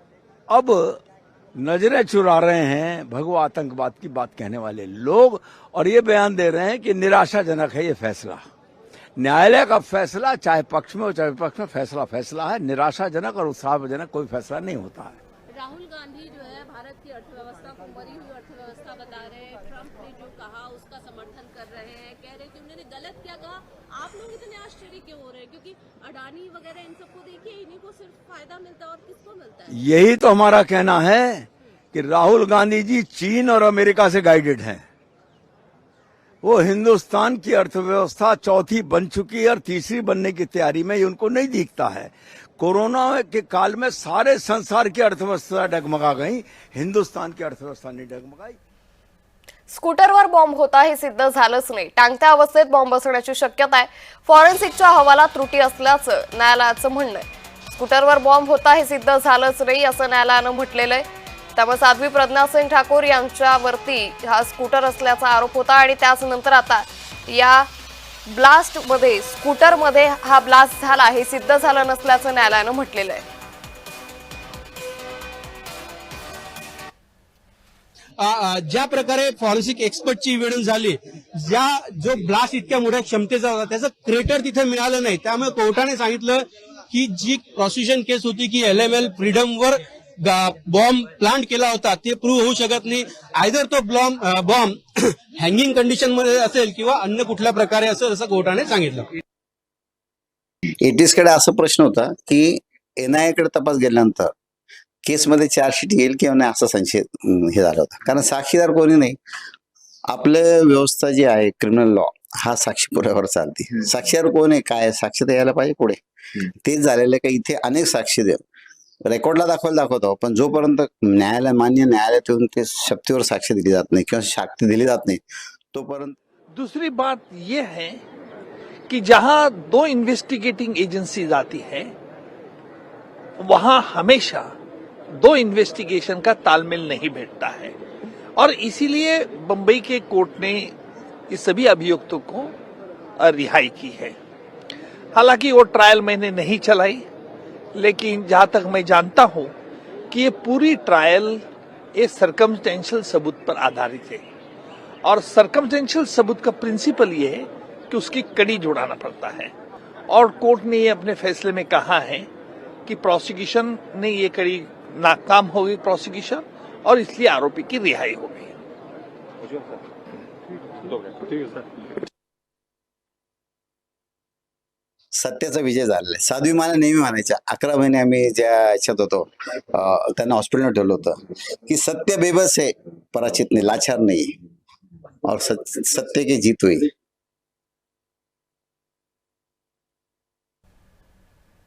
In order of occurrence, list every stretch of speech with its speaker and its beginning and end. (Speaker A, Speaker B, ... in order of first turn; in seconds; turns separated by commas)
Speaker A: 0.5-1.0, Speaker A: 1.6-8.4, Speaker A: 9.2-15.2, Speaker B: 15.5-29.8, Speaker A: 29.7-34.8, Speaker A: 36.4-48.6, Speaker C: 49.7-61.0, Speaker C: 61.5-67.7, Speaker C: 68.3-73.2, Speaker D: 78.2-94.8, Speaker D: 95.3-99.1, Speaker E: 100.8-104.3, Speaker E: 105.0-109.2, Speaker E: 110.1-116.0, Speaker E: 116.6-118.4, Speaker E: 119.0-125.2, Speaker E: 125.7-126.1, Speaker F: 126.5-128.0, Speaker F: 128.9-131.9, Speaker F: 133.4-134.5, Speaker F: 135.2-137.7, Speaker F: 138.4-140.7, Speaker F: 141.3-142.5, Speaker F: 143.2-144.1, Speaker F: 145.2-147.0, Speaker F: 147.8-149.5, Speaker F: 150.1-151.4, Speaker F: 152.0-154.2, Speaker F: 155.1-159.5, Speaker F: 160.1-162.3, Speaker F: 162.9-168.5, Speaker E: 175.2-184.3, Speaker E: 185.2-186.9